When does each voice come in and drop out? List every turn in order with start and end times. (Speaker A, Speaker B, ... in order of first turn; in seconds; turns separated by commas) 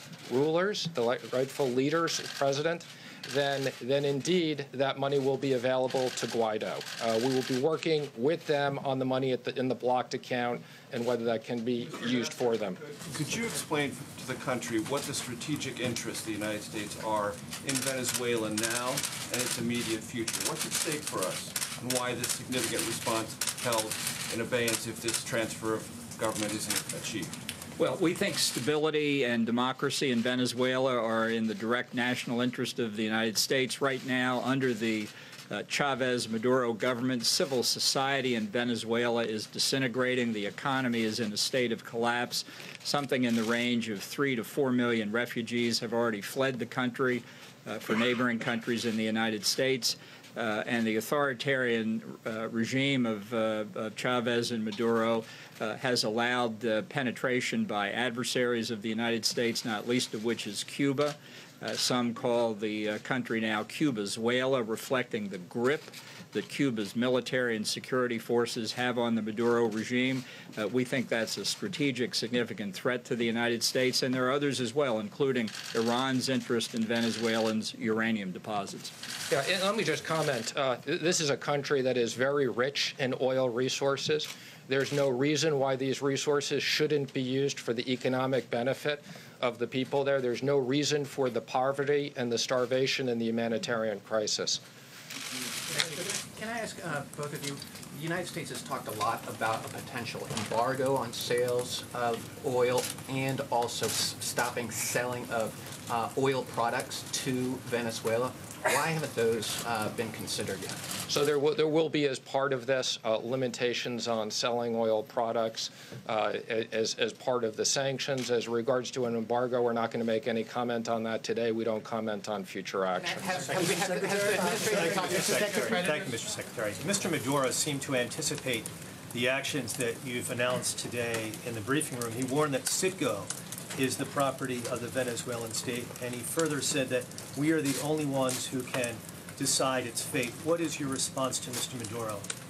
Speaker A: 0.2-12.8, Speaker B: 13.1-27.3, Speaker C: 27.8-78.9, Speaker A: 79.3-94.6, Speaker D: 95.7-110.8, Speaker A: 111.1-123.5, Speaker D: 123.2-126.0, Speaker E: 124.6-142.3